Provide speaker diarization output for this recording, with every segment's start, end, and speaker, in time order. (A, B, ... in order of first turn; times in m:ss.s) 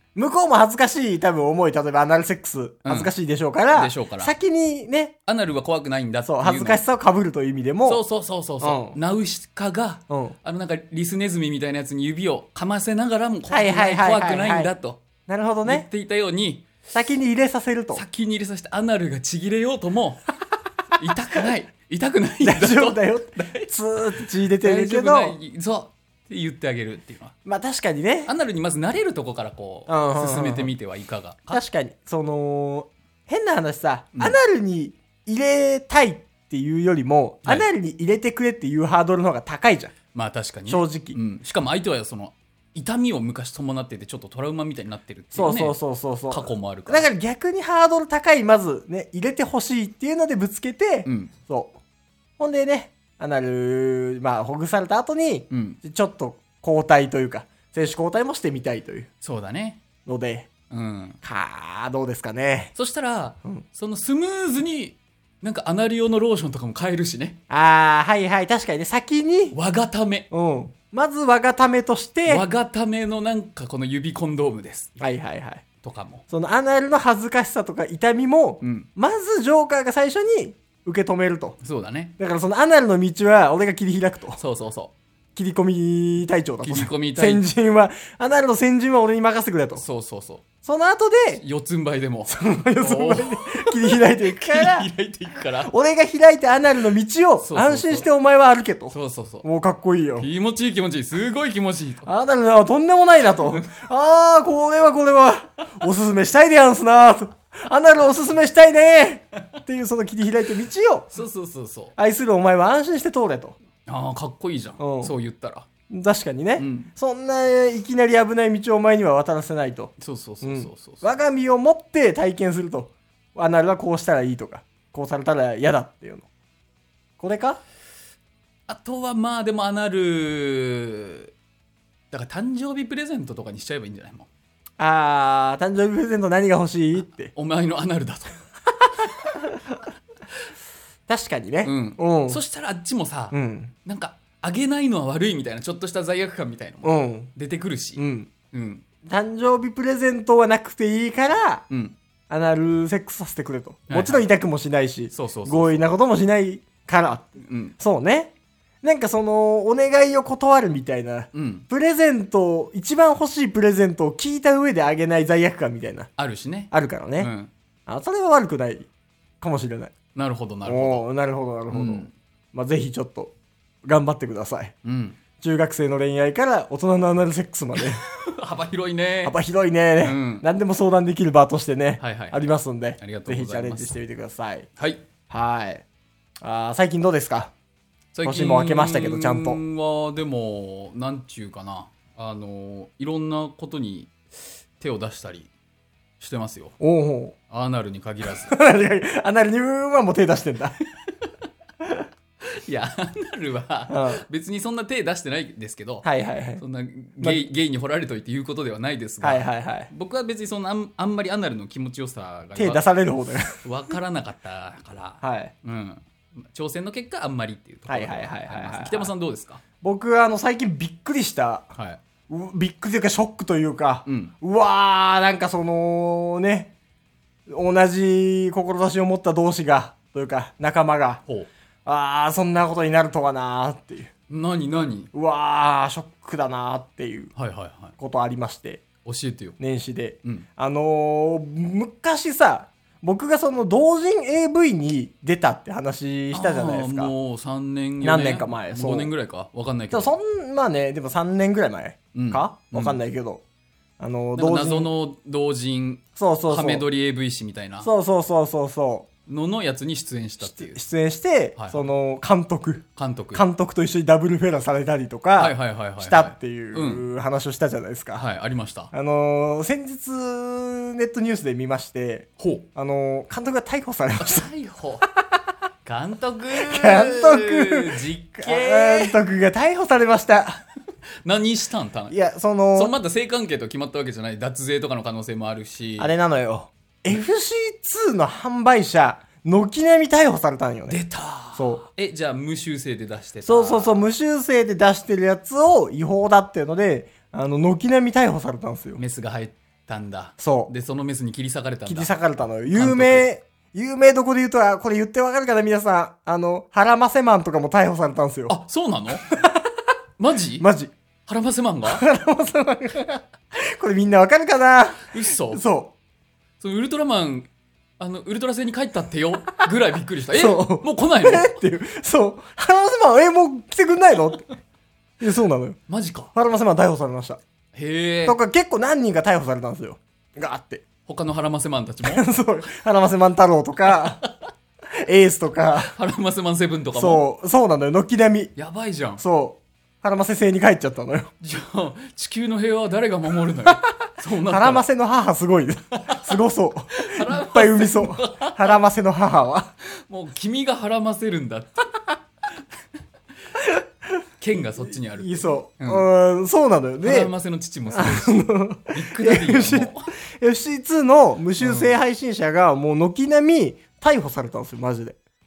0:00.2-0:05.2 A
0:02.8-0:03.1 B
0:03.7-0:04.3 B
0:05.3-0:06.8 B
0:06.2-0:08.0 A
0:07.9-0:15.0 B
0:08.6-0:09.0 A
0:10.1-0:10.4 A
0:13.5-0:14.7 A
0:15.3-0:15.9 A
0:15.6-0:16.7 B
0:16.9-0:18.0 A
0:17.9-0:20.3 B
0:21.0-0:23.7 B
0:22.4-0:25.4 A
0:24.6-0:27.3 B
0:27.4-0:28.3 A
0:28.3-0:31.6 B
0:29.9-0:30.7 A
0:31.5-0:39.9 A
0:40.1-0:45.8 B
0:40.7-0:41.2 A
0:45.3-0:51.8 A
0:46.3-0:47.1 B
0:51.0-0:51.3 B
0:52.4-0:59.1 A
0:55.5-0:55.8 B
0:59.2-0:59.8 B
1:00.1-1:00.5 A
1:00.7-1:01.2 B
1:01.2-1:02.7 A
1:02.8-1:07.4 B
1:07.5-1:09.6 A
1:09.5-1:10.3 B
1:10.3-1:12.4 A
1:12.3-1:14.9 B
1:15.0-1:15.6 A
1:15.8-1:16.2 B
1:16.3-1:21.6 A
1:18.6-1:18.9 B
1:21.6-1:22.1 B
1:22.2-1:24.4 A
1:24.4-1:24.9 B
1:25.4-1:29.8 A
1:26.6-1:27.5 B
1:29.8-1:30.5 B
1:30.6-1:31.4 A
1:31.3-1:35.7 B
1:32.3-1:34.9 A
1:35.6-1:40.3 A
1:37.4-1:38.1 B
1:38.9-1:39.5 B
1:40.2-1:42.1 B
1:42.1-1:51.1 A
1:43.4-1:43.7 B
1:51.1-1:52.0 B
1:52.0-1:53.6 A
1:53.9-1:55.7 B
1:54.8-1:55.1 A
1:55.9-2:06.3 A
1:56.6-1:56.9 B
2:00.0-2:01.2 B
2:07.2-2:07.6 A
2:08.7-2:11.3 B
2:12.1-2:14.3 B
2:14.8-2:17.3 A
2:17.3-2:18.4 B
2:19.2-2:19.6 A
2:21.1-2:22.4 A
2:21.6-2:28.8 B
2:23.3-2:23.7 A
2:26.8-2:27.3 A
2:28.0-2:28.3 A
2:29.0-2:31.7 A
2:31.7-2:32.0 B
2:32.3-2:46.1 A
2:33.9-2:34.3 B
2:35.1-2:35.9 B
2:37.4-2:37.8 B
2:41.3-2:41.7 B
2:46.2-2:47.5 B
2:46.7-2:47.3 A
2:47.9-2:48.9 A
2:49.4-2:49.9 A
2:50.2-2:51.1 B
2:50.7-2:54.7 A
2:51.7-2:52.1 B
2:54.8-2:55.2 B
2:55.4-2:58.0 A
2:57.8-2:59.4 B
2:59.2-3:04.7 A
3:00.0-3:00.5 B
3:02.0-3:02.4 B
3:03.0-3:04.0 B
3:04.8-3:05.0 B
3:05.3-3:05.8 A
3:06.4-3:07.5 A
3:08.1-3:14.2 B
3:08.2-3:09.6 A
3:14.8-3:15.5 B
3:16.2-3:16.8 B
3:16.8-3:17.4 A
3:17.5-3:18.5 B
3:18.4-3:20.8 A
3:22.4-3:26.1 B
3:23.9-3:24.2 A
3:26.0-3:26.6 A
3:26.6-3:32.8 B
3:27.2-3:27.5 A
3:29.2-3:29.9 A
3:32.6-3:33.6 A
3:33.6-3:39.6 B
3:35.2-3:35.5 A
3:37.9-3:39.1 A
3:39.8-3:41.7 A
3:41.8-3:42.0 B
3:42.3-3:46.7 A
3:44.1-3:44.3 B
3:47.5-3:51.2 A
3:51.9-3:54.1 A
3:54.3-3:55.1 B
3:55.1-3:57.3 A
3:57.4-3:58.0 B
3:58.0-3:58.8 A
3:59.0-3:59.6 B
3:59.6-4:07.1 A
4:06.3-4:10.2 B
4:08.0-4:09.1 A
4:09.9-4:13.4 A
4:12.1-4:13.0 B
4:14.0-4:14.9 A
4:14.4-4:17.9 B
4:16.2-4:16.8 A
4:17.8-4:19.1 A
4:19.3-4:20.8 B
4:20.4-4:28.2 A
4:21.6-4:21.9 B
4:23.0-4:23.4 B
4:25.4-4:27.1 B
4:28.2-4:28.9 B
4:28.9-4:34.5 A
4:32.4-4:32.7 B
4:34.2-4:35.1 B
4:35.8-4:39.2 B
4:36.5-4:40.6 A
4:41.2-4:42.2 B
4:42.1-4:43.0 A
4:42.7-4:46.1 B
4:46.0-4:51.0 A
4:50.9-4:54.1 B
4:51.6-4:51.8 A
4:53.4-4:59.0 A
4:59.0-5:02.1 B
5:00.4-5:00.7 A
5:01.9-5:08.6 A
5:02.7-5:03.3 B
5:08.5-5:09.3 B
5:09.3-5:09.8 A
5:10.2-5:10.7 B
5:10.6-5:10.9 A
5:11.3-5:12.0 B
5:11.9-5:16.0 A
5:15.1-5:15.6 B
5:16.6-5:17.5 B
5:18.0-5:21.6 B
5:20.3-5:24.5 A
5:25.2-5:25.8 A
5:25.9-5:26.3 B
5:26.4-5:27.4 A
5:27.7-5:28.4 B
5:28.3-5:30.9 A
5:31.1-5:32.3 B
5:32.0-5:34.2 A
5:33.9-5:34.3 B
5:34.9-5:35.9 A
5:35.8-5:37.2 B
5:37.0-5:38.5 A
5:38.6-5:39.2 B
5:39.2-5:41.3 A
5:41.4-5:44.9 B
5:44.4-5:49.7 A
5:46.0-5:46.4 B
5:46.9-5:48.8 B
5:50.1-5:51.9 B
5:54.4-5:56.1 B
5:55.2-5:57.3 A
5:57.0-6:00.1 B
5:57.9-6:05.2 A
6:01.6-6:02.0 B